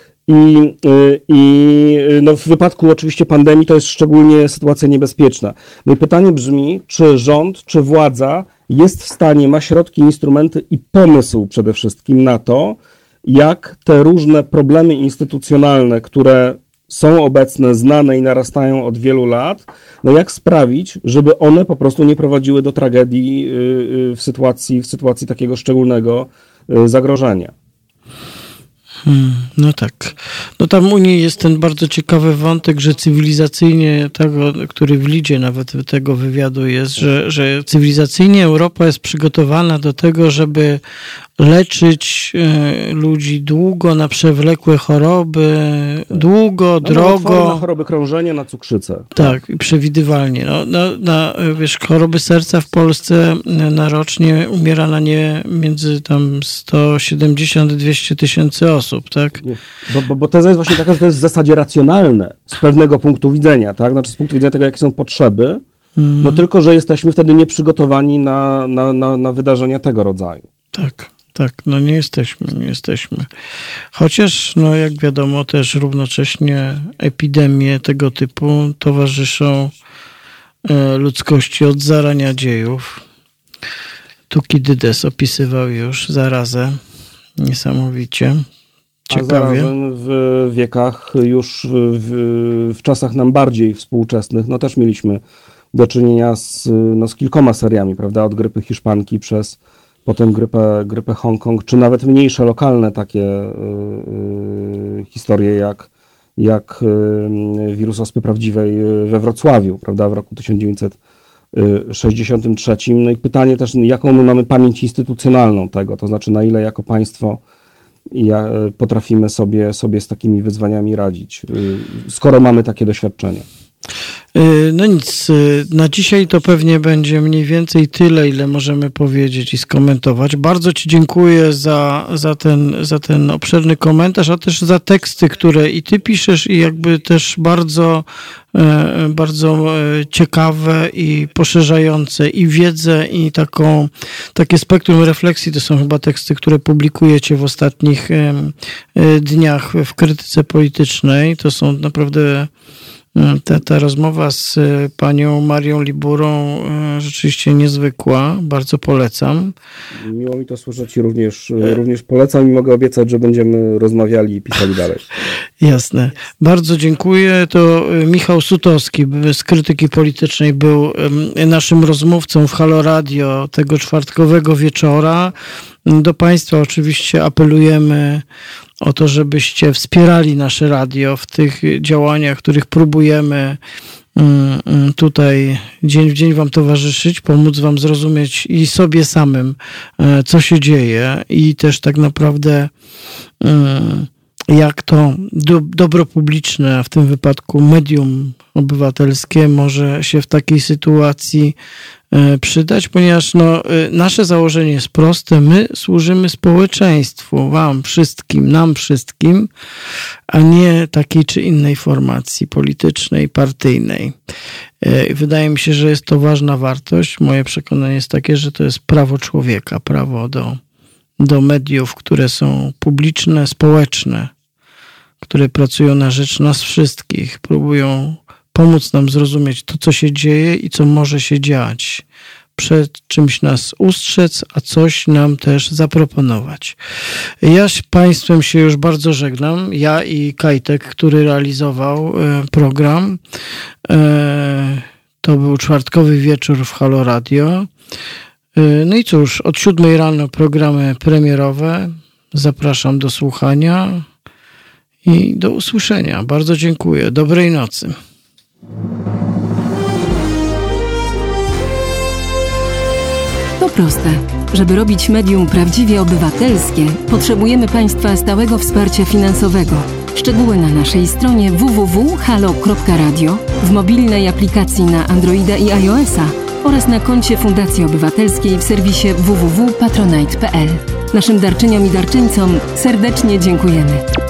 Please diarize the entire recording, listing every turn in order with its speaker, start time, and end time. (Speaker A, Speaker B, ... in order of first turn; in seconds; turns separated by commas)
Speaker A: 0.3-27.5, Speaker B: 29.1-40.8, Speaker B: 41.4-47.6, Speaker A: 46.8-49.4, Speaker B: 49.1-59.4, Speaker A: 59.4-65.6, Speaker B: 66.0-66.4, Speaker A: 66.2-70.4, Speaker B: 70.7-73.3, Speaker B: 73.9-79.7, Speaker B: 80.7-83.0, Speaker B: 84.3-86.8, Speaker B: 87.4-88.4, Speaker B: 89.1-89.7, Speaker A: 89.1-95.2, Speaker A: 95.7-111.0, Speaker A: 111.5-117.4, Speaker A: 118.1-123.5, Speaker B: 124.3-152.5, Speaker B: 153.2-159.5, Speaker A: 160.0-165.1, Speaker B: 165.6-175.3, Speaker B: 175.9-178.2, Speaker B: 178.8-183.6, Speaker B: 184.2-192.7, Speaker B: 193.4-201.6, Speaker B: 202.1-209.5, Speaker B: 210.3-214.2, Speaker B: 214.8-220.6, Speaker B: 221.2-224.3, Speaker B: 225.2-232.0, Speaker B: 232.6-236.8, Speaker B: 237.4-243.2, Speaker B: 243.9-247.7, Speaker B: 248.6-254.1, Speaker B: 255.0-257.9, Speaker C: 263.6-284.0